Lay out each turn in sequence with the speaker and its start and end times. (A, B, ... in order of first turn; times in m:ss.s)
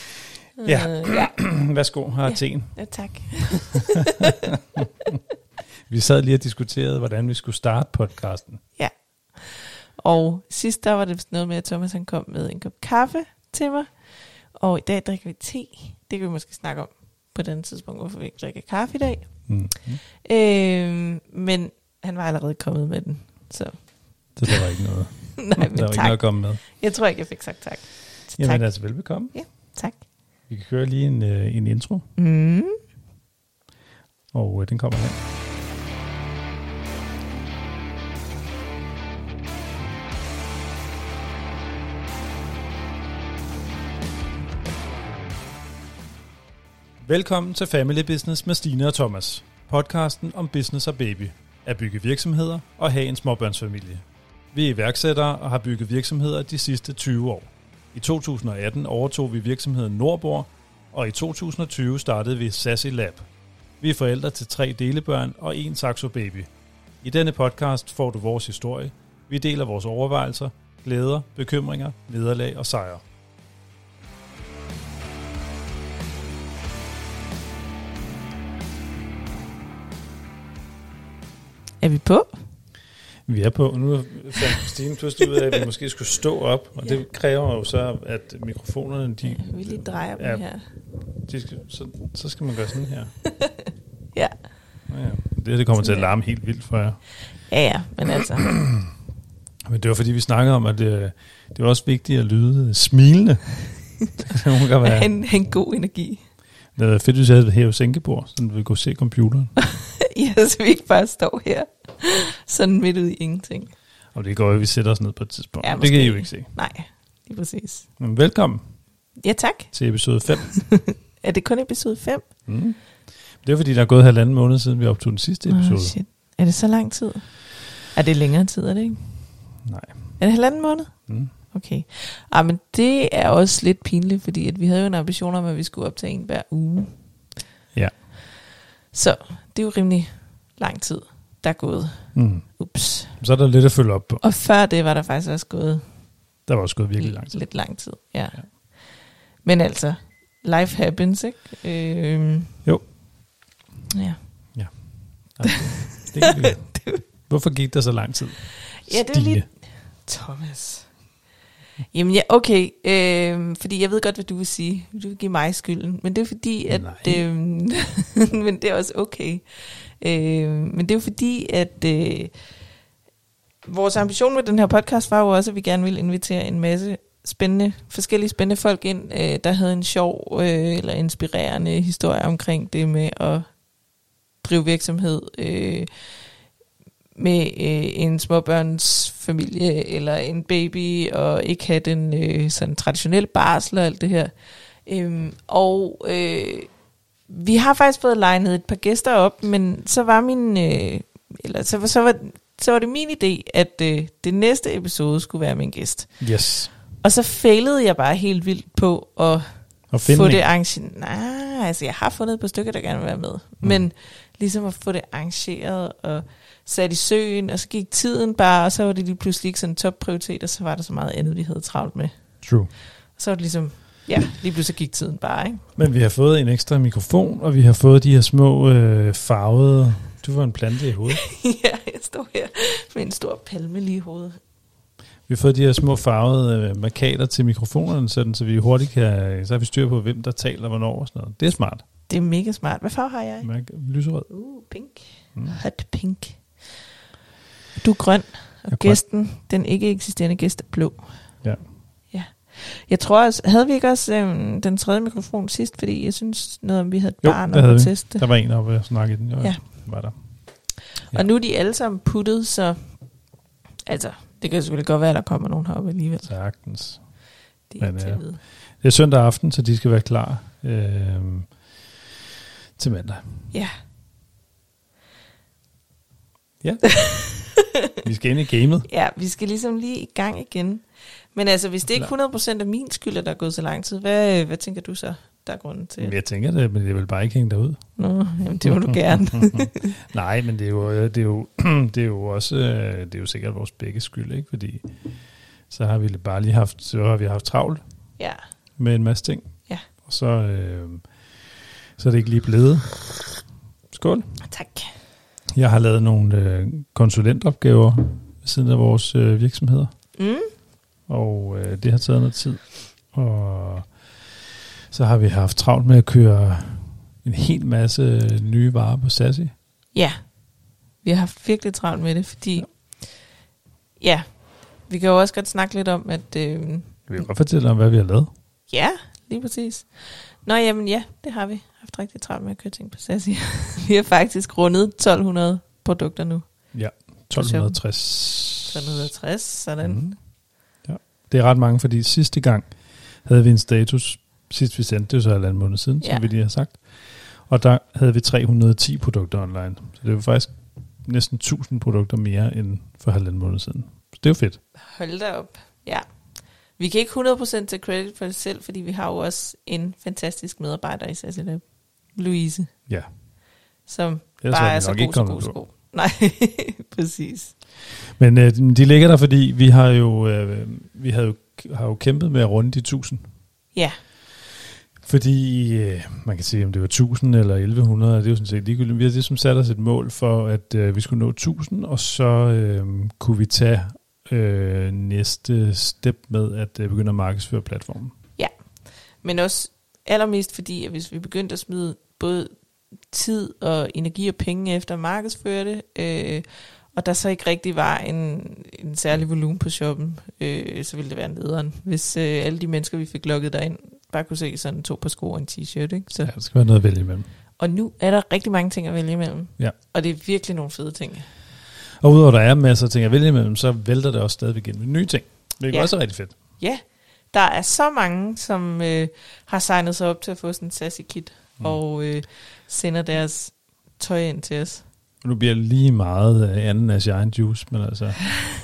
0:00.6-0:01.4 A
0:00.6-0:02.8 B
0:02.3-0:04.6 A
0:03.7-0:04.9 B
0:05.9-0:08.6 B
0:08.8-0:13.9 A
0:14.6-0:19.3 A
0:19.5-0:20.0 B
0:20.2-0:23.8 A
0:24.4-0:26.6 B
0:25.4-0:28.7 A
0:28.4-0:29.4 B
0:29.3-0:30.0 A
0:30.5-0:32.1 B
0:32.2-0:32.8 A
0:34.3-0:35.2 B
0:47.0-1:03.3 B
1:03.8-1:06.5 B
1:07.0-1:13.0 B
1:21.8-1:22.3 A
1:23.3-1:30.4 B
1:29.2-1:30.6 A
1:31.2-1:33.1 B
1:33.4-1:34.3 A
1:34.9-1:37.0 B
1:35.8-1:36.1 A
1:37.5-1:38.5 A
1:38.2-1:38.9 B
1:39.7-1:43.5 B
1:44.2-1:45.1 B
1:44.8-1:46.2 A
1:46.8-1:49.5 B
1:49.6-1:53.7 A
1:54.1-1:56.5 B
1:55.6-1:57.9 A
1:58.0-1:58.6 B
1:59.2-1:59.7 A
1:59.7-2:00.5 B
2:00.3-2:02.3 A
2:02.5-2:02.8 B
2:03.4-2:06.0 B
2:05.5-2:09.0 A
2:09.6-2:10.2 B
2:10.2-2:10.9 A
2:11.5-2:16.9 A
2:18.9-2:23.2 A
2:22.1-2:22.5 B
2:23.1-2:24.2 B
2:24.2-2:25.9 A
2:26.5-2:27.5 B
2:27.0-2:32.6 A
2:33.9-2:34.2 A
2:35.3-2:39.4 B
2:35.4-2:37.0 A
2:38.8-2:41.0 A
2:41.9-2:52.3 A
2:46.7-2:47.2 B
2:53.7-3:03.5 A
3:04.4-3:06.1 A
3:07.2-3:14.3 A
3:14.8-3:16.7 A
3:17.3-3:26.2 A
3:26.2-3:26.7 B
3:27.0-3:42.1 A
3:29.9-3:30.4 B
3:42.4-3:42.7 B
3:43.2-3:45.6 A
3:45.8-3:51.2 B
3:51.1-3:54.4 A
3:55.3-4:01.8 B
4:02.1-4:03.5 A
4:03.4-4:04.3 B
4:04.3-4:06.4 A
4:07.8-4:11.1 A
4:08.7-4:09.0 B
4:12.1-4:18.3 A
4:17.2-4:20.1 B
4:19.4-4:19.6 A
4:21.1-4:22.8 A
4:23.9-4:26.3 A
4:26.2-4:27.0 B
4:27.7-4:28.4 A
4:27.8-4:28.2 B
4:28.8-4:31.5 B
4:32.8-4:33.2 B
4:36.6-4:37.0 B
4:37.0-4:37.9 A
4:38.0-4:38.9 B
4:38.9-4:46.2 A
4:46.0-4:47.8 B
4:48.0-4:50.0 A
4:48.6-4:54.9 B
4:55.7-4:57.8 B
4:58.8-4:59.5 B
5:00.0-5:01.0 B
5:02.0-5:03.0 B
5:03.9-5:04.3 B
5:04.4-5:04.9 A
5:05.6-5:09.9 B
5:10.2-5:10.5 A
5:11.1-5:13.9 B
5:14.9-5:19.5 B
5:19.9-5:20.2 A
5:21.0-5:22.9 A
5:24.0-5:24.3 A
5:24.9-5:27.0 A
5:27.1-5:28.3 B
5:28.7-5:36.5 A
5:36.7-5:39.1 B
5:37.4-5:37.8 A
5:38.6-5:40.2 A
5:39.8-5:40.1 B
5:40.8-5:54.6 B
5:54.8-5:56.0 A
5:56.8-6:02.7 A
6:03.9-6:07.5 A
6:04.4-6:05.6 B
6:08.0-6:13.2 B
6:15.0-6:28.2 B
6:29.2-6:32.5 A
6:33.1-6:46.3 A
6:46.2-6:47.3 B
6:47.6-6:51.3 A
6:52.0-6:56.4 B
6:56.6-7:04.8 A
7:05.2-7:08.2 B